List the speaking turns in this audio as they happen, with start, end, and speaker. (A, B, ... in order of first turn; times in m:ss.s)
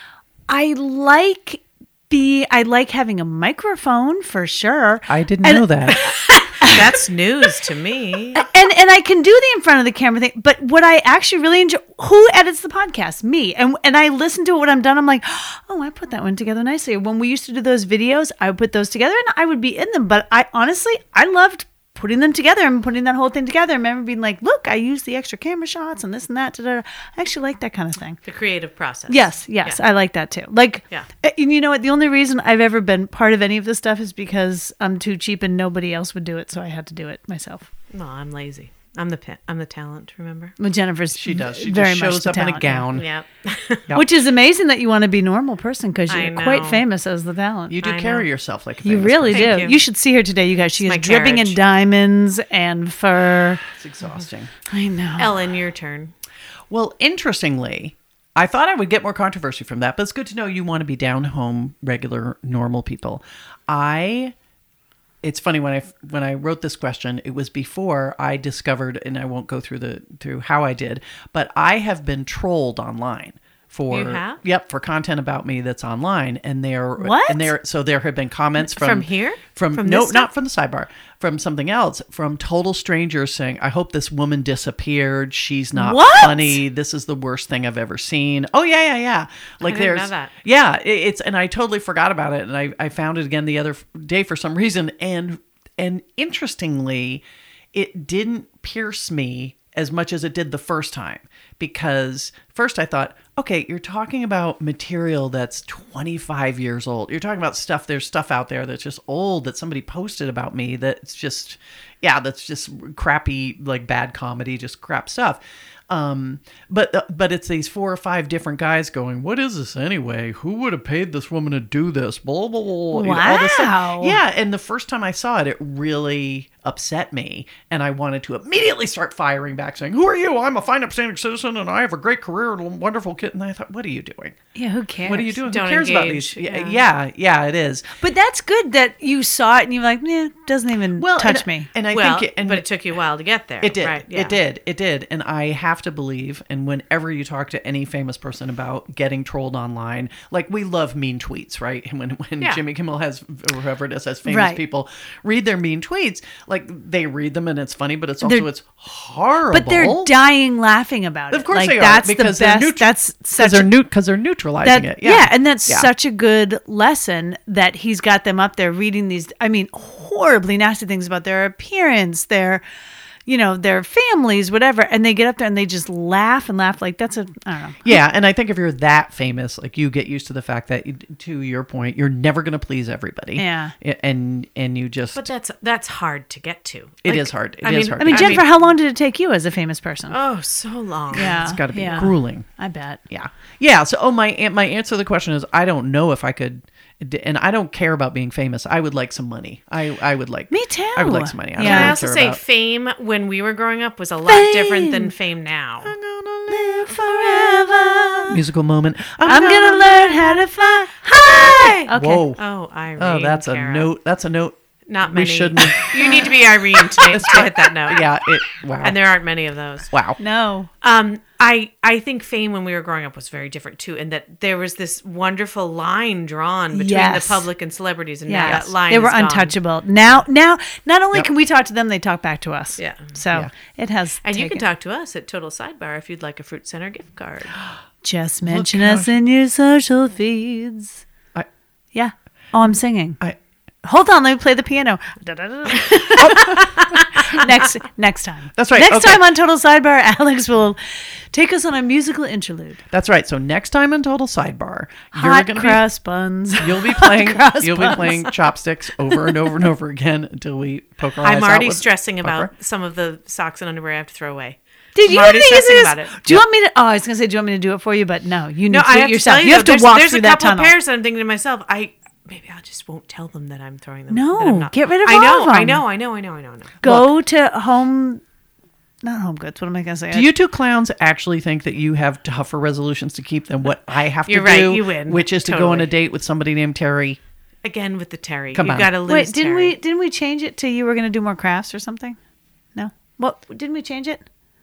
0:00.5-0:06.1 A
0:05.1-0:06.0 B
0:05.9-0:08.5 C
0:06.6-0:07.0 A
0:08.4-0:28.2 A
0:28.2-0:29.8 C
0:29.1-0:37.7 A
0:37.9-0:40.6 C
0:40.6-0:42.9 A
0:41.1-0:43.1 B
0:43.0-0:43.9 C
0:43.9-0:47.8 A
0:46.1-0:46.8 C
0:47.7-0:49.6 B
0:47.8-0:48.3 C
0:48.8-0:53.6 A
0:49.3-0:49.8 C
0:50.8-0:51.6 C
0:53.8-0:54.5 B
0:54.7-0:55.5 A
0:55.2-0:56.1 C
0:56.7-1:04.4 B
1:05.2-2:14.4 B
1:13.9-1:14.4 C
1:17.0-1:17.5 A
1:18.6-1:20.3 C
1:25.8-1:26.6 A
1:29.6-1:30.3 C
2:02.9-2:04.2 A
2:14.6-2:15.4 A
2:15.0-2:17.9 B
2:15.5-2:16.8 C
2:18.0-2:21.7 A
2:21.0-2:22.6 B
2:21.9-2:24.4 C
2:23.6-2:40.1 B
2:34.3-2:34.6 A
2:39.5-2:43.7 A
2:41.3-2:45.9 B
2:44.6-2:52.6 A
2:53.3-2:57.8 A
2:57.8-3:05.3 B
3:03.4-3:03.7 A
3:05.2-3:08.7 C
3:07.0-3:08.4 B
3:08.0-3:10.2 A
3:10.1-3:12.1 C
3:11.1-3:12.5 B
3:11.1-3:13.0 A
3:13.1-3:22.4 B
3:20.5-3:22.0 A
3:21.6-3:26.0 C
3:24.3-3:25.1 A
3:25.8-3:27.7 B
3:26.5-3:28.4 A
3:28.2-3:30.4 B
3:29.3-3:32.3 A
3:31.0-3:33.9 C
3:31.4-3:32.4 B
3:33.0-3:39.0 B
3:34.9-3:38.1 C
3:38.8-3:39.9 C
3:39.9-3:40.2 B
3:40.2-3:40.7 A
3:40.8-3:49.6 C
3:46.7-3:47.5 A
3:48.3-3:54.6 A
3:52.8-3:53.2 C
3:54.2-3:57.6 C
3:58.0-4:01.0 A
3:58.4-3:59.2 B
4:01.9-4:03.2 A
4:03.8-4:12.8 A
4:06.2-4:07.0 B
4:08.6-4:09.2 B
4:12.9-4:15.8 B
4:15.2-4:18.4 A
4:16.6-4:22.5 B
4:19.1-4:19.4 A
4:21.2-4:26.4 C
4:25.0-4:30.7 A
4:28.7-4:36.8 C
4:34.1-4:35.8 A
4:36.8-4:38.2 A
4:36.8-4:37.1 B
4:39.0-4:40.3 A
4:40.1-4:47.2 B
4:44.3-4:45.9 C
4:47.6-4:49.8 C
4:48.6-4:48.9 B
4:49.1-4:52.2 A
4:52.8-4:54.2 A